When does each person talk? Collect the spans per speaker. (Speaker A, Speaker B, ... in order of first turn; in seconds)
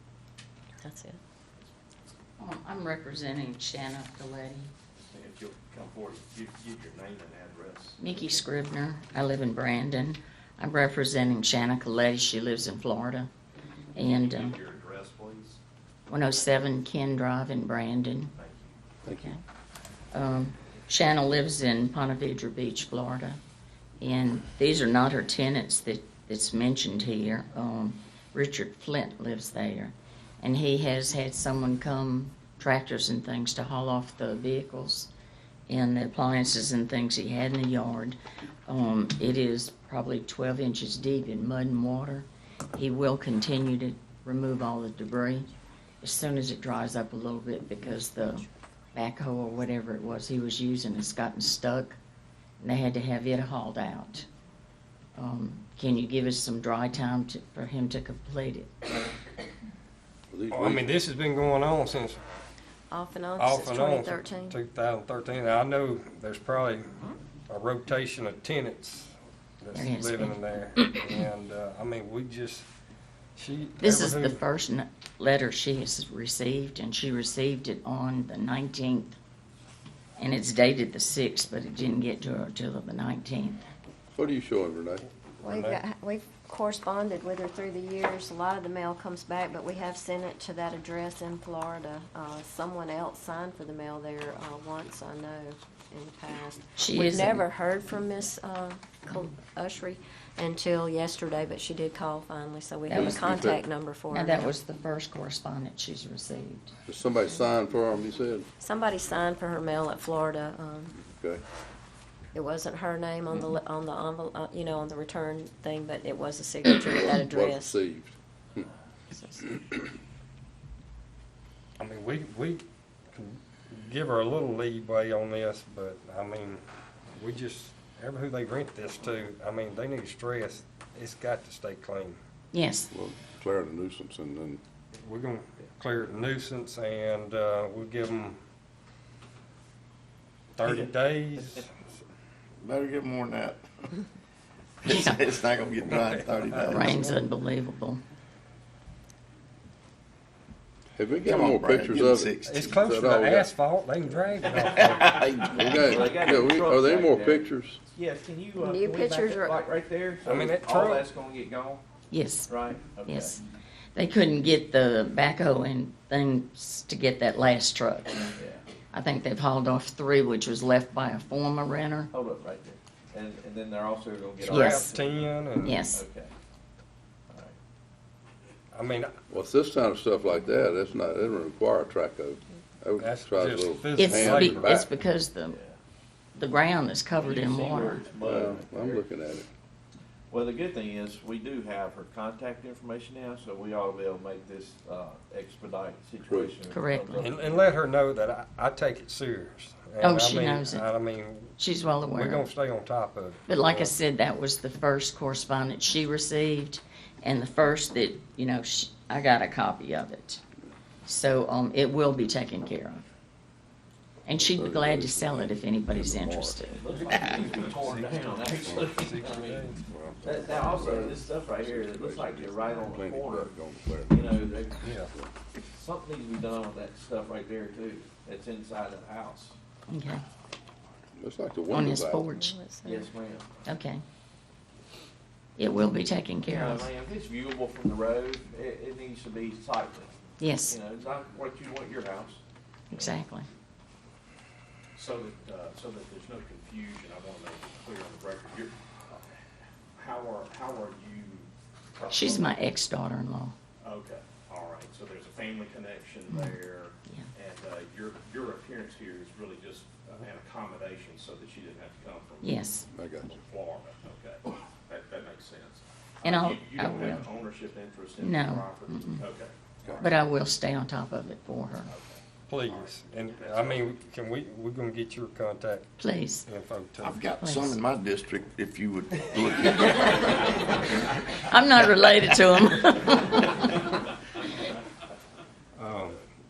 Speaker A: 0.8-1.2, 62.9-64.6, 85.4-104.5, 108.6-110.9, 112.3-117.8, 119.1-119.7, 158.6-159.6, 232.3-233.1
Speaker B: 2.4-4.7, 8.0-13.3, 13.9-14.6, 16.1-18.3, 19.1-19.4, 20.1-23.4, 24.0-35.1, 35.7-45.5, 46.0-52.0, 52.6-54.2, 55.1-58.7, 69.7-70.3, 73.8-79.2, 80.2-83.6, 96.8-97.4, 102.9-103.4, 104.1-106.7, 132.5-132.9, 144.9-145.2, 146.7-148.0, 162.1-162.5, 163.1-163.4, 163.9-168.3, 168.9-172.1, 174.4-174.9, 175.6-176.0, 183.9-185.6, 186.3-188.1, 196.7-197.3, 200.0-200.8, 201.6-202.4, 203.5-210.4, 211.1-213.0, 214.2-216.8, 229.9-230.2, 231.7-232.5, 233.6-234.0, 235.6-236.9, 240.4-240.8, 242.9-243.4, 252.1-253.5, 262.4-262.9, 266.2-267.3, 268.2-269.2, 270.0-271.9, 276.0-276.4, 277.4-277.8, 281.4-283.8
Speaker C: 5.0-8.0, 14.0-15.6, 18.4-18.8, 244.9-249.3, 249.9-252.6, 253.8-262.6, 263.2-270.1, 271.9-273.9
Speaker D: 19.0-19.4, 60.3-60.9, 84.1-85.0, 102.9-103.6, 106.9-108.5, 111.0-111.4, 117.0-118.6, 132.9-134.6, 150.9-153.5, 155.5-157.8, 179.3-184.9, 188.2-189.5, 214.3-216.6, 218.6-218.9, 219.8-225.3, 231.2-232.3, 262.9-263.3
Speaker E: 60.5-62.2, 63.4-72.7, 73.3-74.4, 85.4-85.8, 121.8-126.6, 127.1-132.2, 134.9-138.4, 140.6-141.7, 145.9-147.1, 152.4-155.3, 160.2-161.0, 174.4-175.8, 178.7-179.2, 183.0-184.8, 197.2-201.5, 202.1-203.9, 216.9-219.8, 224.8-225.1, 272.5-277.3, 285.8-286.2
Speaker F: 142.6-143.6, 144.8-147.0, 151.2-152.8, 155.2-155.9, 277.0-280.8
Speaker G: 154.4-161.8, 162.5-163.4, 168.3-168.6, 172.1-176.3, 177.3-177.6, 185.5-185.8, 187.2-189.1, 190.3-197.6, 216.7-219.7, 220.2-223.5, 224.1-224.9, 225.7-229.5, 232.8-233.5, 236.4-240.2, 240.7-242.4